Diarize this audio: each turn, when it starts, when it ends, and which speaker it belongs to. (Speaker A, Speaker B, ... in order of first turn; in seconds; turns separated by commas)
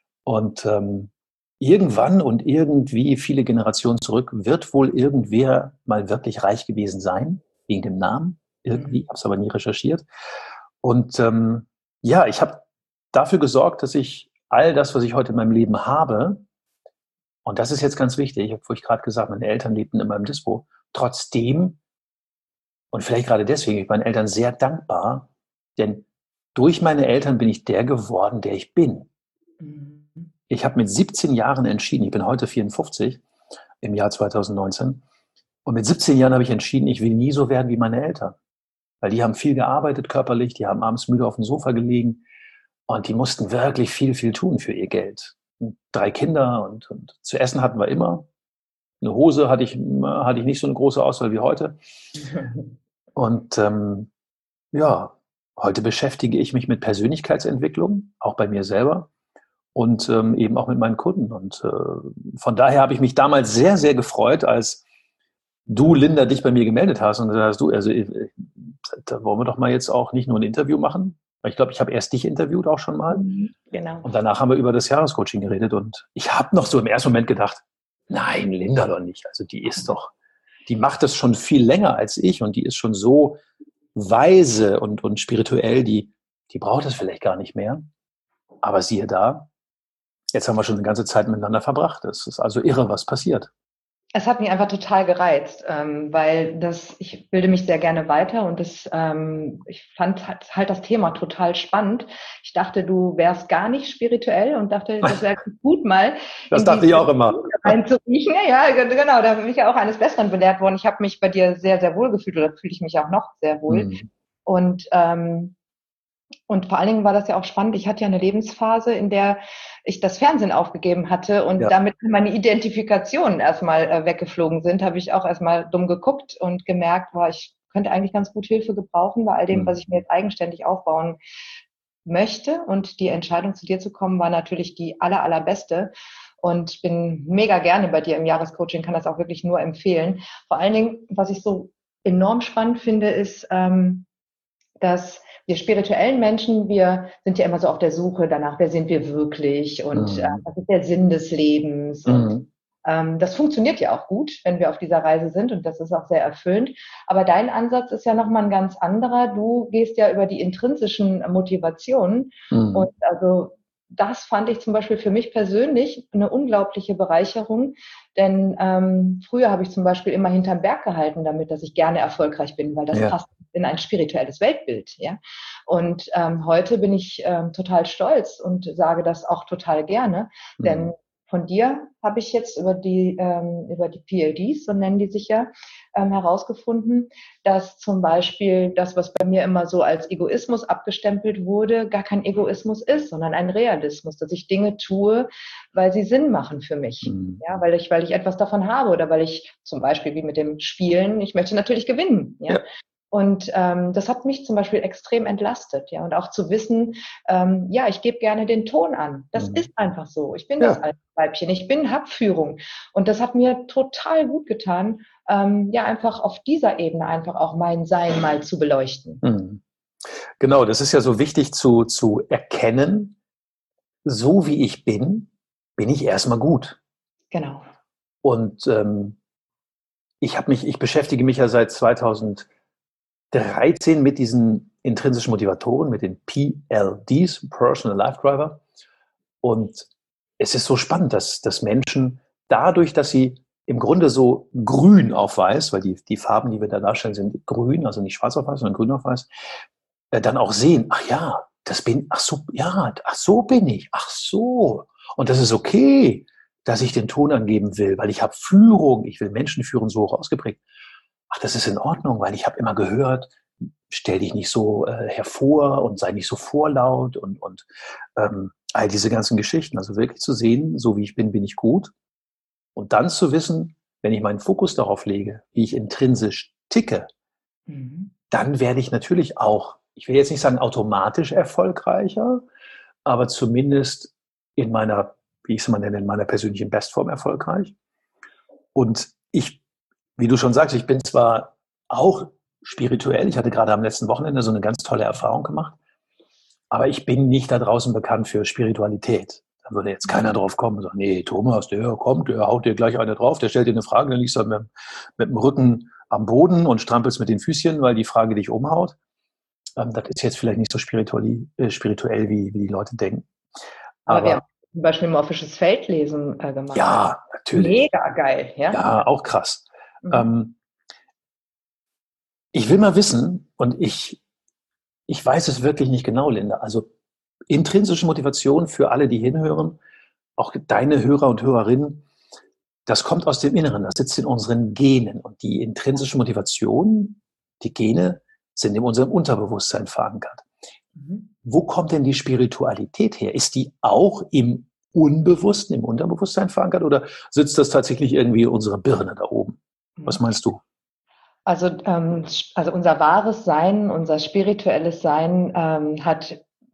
Speaker A: 0.2-10.0, Speaker B: 8.7-9.0, Speaker A: 10.8-16.4, Speaker A: 17.4-21.8, Speaker A: 22.9-29.1, Speaker B: 29.6-30.3, Speaker A: 30.5-33.2, Speaker A: 33.8-35.0, Speaker A: 35.6-38.4, Speaker A: 39.0-42.2, Speaker A: 42.9-48.3, Speaker A: 49.0-51.8, Speaker B: 52.2-52.6, Speaker A: 53.1-54.1, Speaker A: 54.7-59.1, Speaker A: 59.8-64.8, Speaker A: 65.7-73.3, Speaker B: 73.1-74.1, Speaker A: 74.0-80.1, Speaker A: 80.7-83.4, Speaker A: 83.9-87.8, Speaker A: 88.6-89.5, Speaker A: 90.3-93.5, Speaker B: 94.1-113.9, Speaker A: 106.5-107.8, Speaker A: 113.7-114.1, Speaker B: 114.5-115.6, Speaker B: 116.5-131.2, Speaker B: 132.1-144.1, Speaker B: 144.8-219.2, Speaker A: 149.9-150.4, Speaker A: 152.1-152.4, Speaker A: 162.5-162.9, Speaker A: 180.6-180.9, Speaker A: 197.0-197.4, Speaker A: 209.4-209.6, Speaker A: 219.2-219.6, Speaker A: 220.4-223.2, Speaker A: 224.0-226.8, Speaker B: 227.3-227.6, Speaker A: 228.2-229.2, Speaker A: 230.2-232.5, Speaker A: 233.3-238.6, Speaker A: 239.4-249.3, Speaker A: 250.1-260.6, Speaker A: 261.3-271.9, Speaker A: 272.8-277.1, Speaker B: 277.7-278.1, Speaker A: 278.3-282.4, Speaker A: 283.0-287.8, Speaker A: 288.8-289.6, Speaker A: 290.2-295.8, Speaker A: 296.7-308.9, Speaker A: 309.8-313.3, Speaker A: 314.1-314.4, Speaker B: 314.1-317.0, Speaker A: 316.7-317.8, Speaker B: 317.5-319.0, Speaker A: 318.7-320.6, Speaker B: 320.0-320.3, Speaker A: 322.5-324.2, Speaker A: 325.1-326.9, Speaker A: 327.5-329.8, Speaker A: 330.4-332.1, Speaker A: 332.9-340.4, Speaker B: 341.0-341.3, Speaker A: 341.4-350.6, Speaker B: 351.5-356.4